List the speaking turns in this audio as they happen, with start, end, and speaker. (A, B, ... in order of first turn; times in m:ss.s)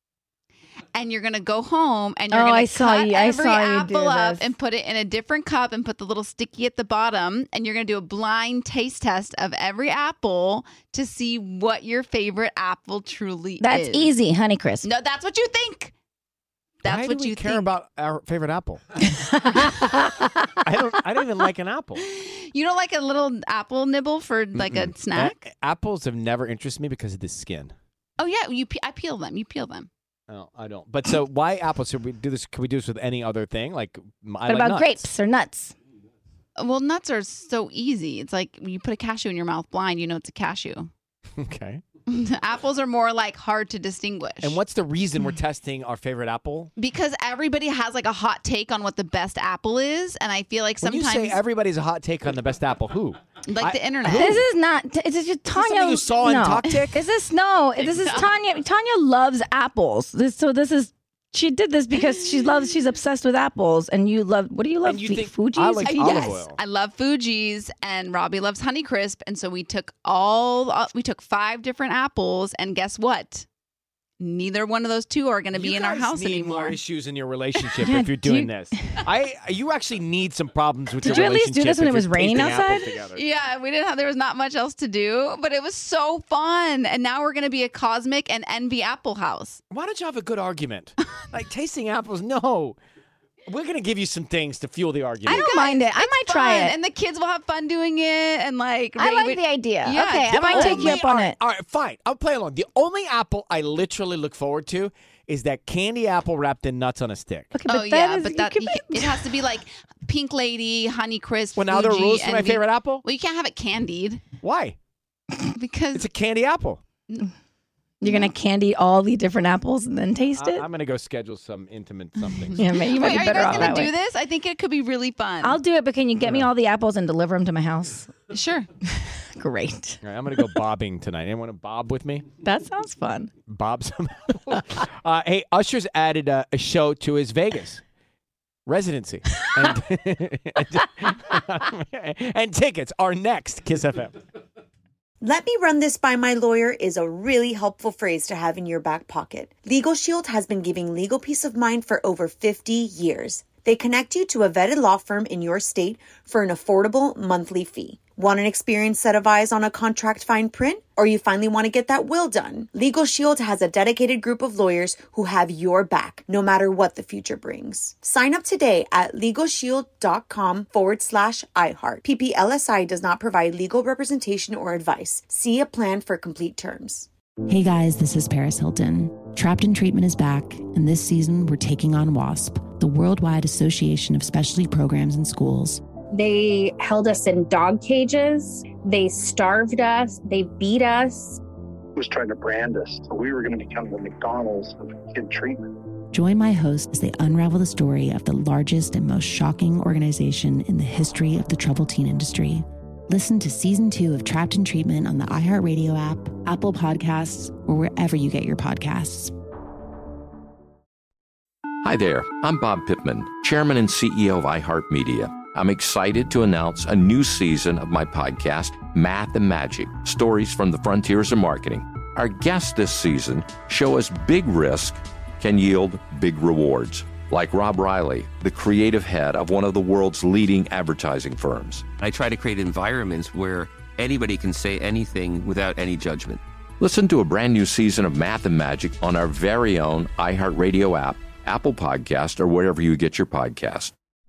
0:00.9-0:14.1 A
0:02.3-0:04.5 B
0:13.6-0:14.9 B
0:14.8-0:15.9 A
0:16.8-0:17.6 A
0:16.8-0:18.8 C
0:19.4-0:19.9 B
0:20.6-0:22.0 C
0:22.0-0:25.4 A
0:24.6-0:27.7 C
0:28.2-0:29.9 A
0:30.3-0:35.1 C
0:34.4-0:35.7 B
0:36.6-0:40.9 A
0:41.4-0:41.8 C
0:42.1-0:44.6 A
0:44.4-0:46.7 C
0:46.8-0:51.4 A
0:50.8-0:54.0 C
0:53.4-0:54.5 A
0:54.0-1:06.4 B
0:55.5-0:57.1 C
0:57.8-0:58.4 A
1:01.9-1:02.7 A
1:04.8-1:06.6 C
1:05.8-1:13.4 A
1:14.2-1:16.8 A
1:15.5-1:23.2 C
1:17.8-1:18.7 B
1:21.0-1:22.9 B
1:23.1-1:29.6 A
1:29.7-1:32.8 C
1:33.4-1:35.5 C
1:35.2-1:41.0 A
1:35.2-1:36.7 B
1:39.0-1:41.4 B
1:40.5-1:47.5 C
1:47.5-1:49.4 B
1:47.7-1:54.2 A
1:51.6-1:53.0 C
1:54.4-1:54.8 C
1:55.5-1:56.1 A
1:55.9-1:56.8 C
1:57.1-1:57.3 A
1:58.0-2:00.6 B
1:58.0-1:58.3 A
2:00.3-2:02.7 C
2:02.5-2:03.9 B
2:02.6-2:05.6 A
2:03.3-2:03.8 C
2:05.4-2:08.1 B
2:06.2-2:06.5 C
2:08.3-2:08.7 A
2:09.0-2:10.4 B
2:10.0-2:12.3 C
2:12.4-2:13.3 B
2:13.4-2:17.8 C
2:18.6-2:24.2 C
2:25.2-2:57.1 D
2:57.5-3:05.8 E
3:06.1-3:11.4 F
3:12.0-3:15.7 G
3:16.1-3:29.3 E
3:31.8-3:51.8 H
3:52.0-3:56.4 I
3:56.8-4:03.9 H